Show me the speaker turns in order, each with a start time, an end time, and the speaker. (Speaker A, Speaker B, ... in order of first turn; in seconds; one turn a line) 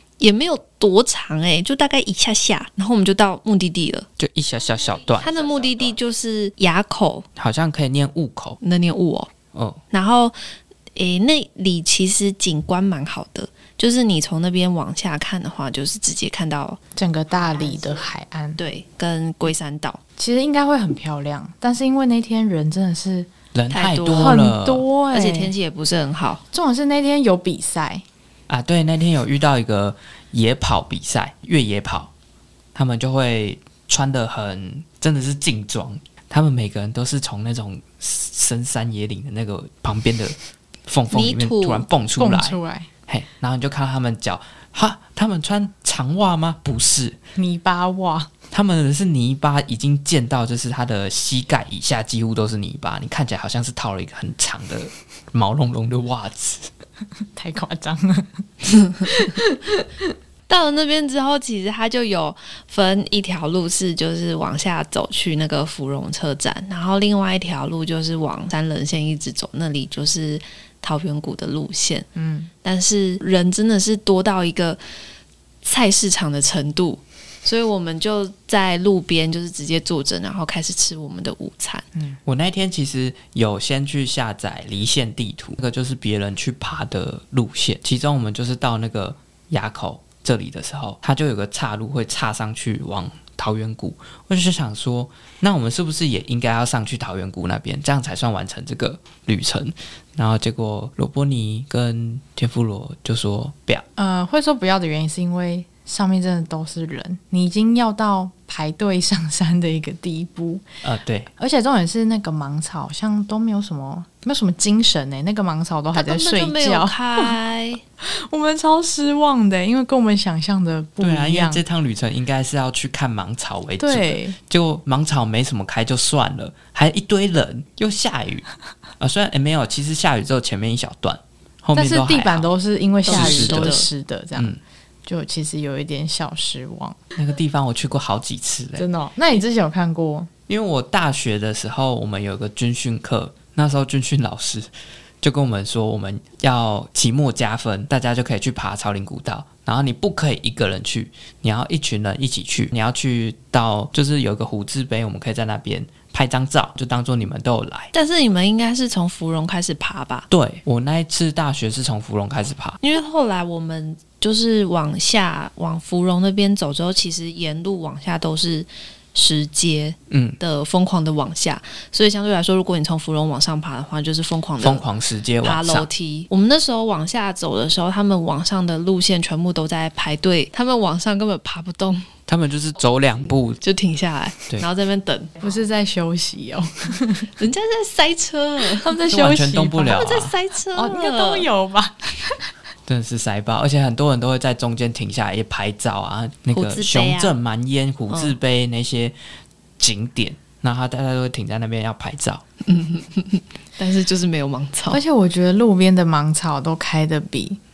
Speaker A: 0.2-4.1
Speaker B: 4.2-5.4
Speaker A: 5.2-7.3
Speaker B: 7.4-8.6
Speaker A: 8.6-9.3
Speaker B: 9.5-9.8
Speaker A: 9.9-10.4
Speaker A: 10.9-16.8
Speaker C: 17.0-18.6
Speaker A: 18.6-20.0
Speaker C: 20.2-23.3
Speaker B: 23.5-24.9
Speaker A: 23.7-24.4
Speaker C: 24.1-25.5
Speaker A: 25.1-26.4
Speaker C: 26.5-28.0
Speaker B: 28.5-32.1
Speaker B: 32.8-40.4
Speaker B: 40.9-47.2
Speaker A: 41.1-41.9
Speaker C: 42.2-42.9
Speaker C: 47.4-48.3
Speaker B: 48.5-56.7
Speaker C: 57.4-60.0
Speaker A: 60.5-72.1
Speaker C: 72.2-72.5
Speaker A: 72.6-74.8
Speaker A: 75.6-81.8
Speaker B: 82.3-103.8
Speaker C: 104.0-110.7
Speaker B: 110.8-111.3
Speaker C: 111.4-117.3
Speaker A: 115.9-117.8
Speaker C: 118.0-121.6
Speaker B: 121.0-128.5
Speaker C: 123.8-124.4
Speaker B: 129.0-132.5
Speaker C: 131.8-134.5
Speaker A: 133.1-133.9
Speaker B: 133.1-133.8
Speaker C: 135.1-137.0
Speaker B: 137.2-138.9
Speaker C: 138.8-140.3
Speaker B: 140.5-157.9
Speaker A: 157.9-160.3
Speaker B: 160.3-162.8
Speaker A: 162.8-174.8
Speaker B: 170.1-170.4
Speaker B: 174.6-175.9
Speaker A: 175.4-182.1
Speaker B: 182.3-183.6
Speaker A: 183.6-185.3
Speaker C: 185.4-187.3
Speaker A: 187.4-189.0
Speaker C: 188.7-190.1
Speaker B: 189.1-190.3
Speaker A: 189.8-191.5
Speaker C: 190.7-192.4
Speaker B: 192.9-199.2
Speaker A: 196.5-197.3
Speaker A: 198.1-198.4
Speaker B: 199.8-202.4
Speaker A: 202.6-205.0
Speaker C: 204.9-207.6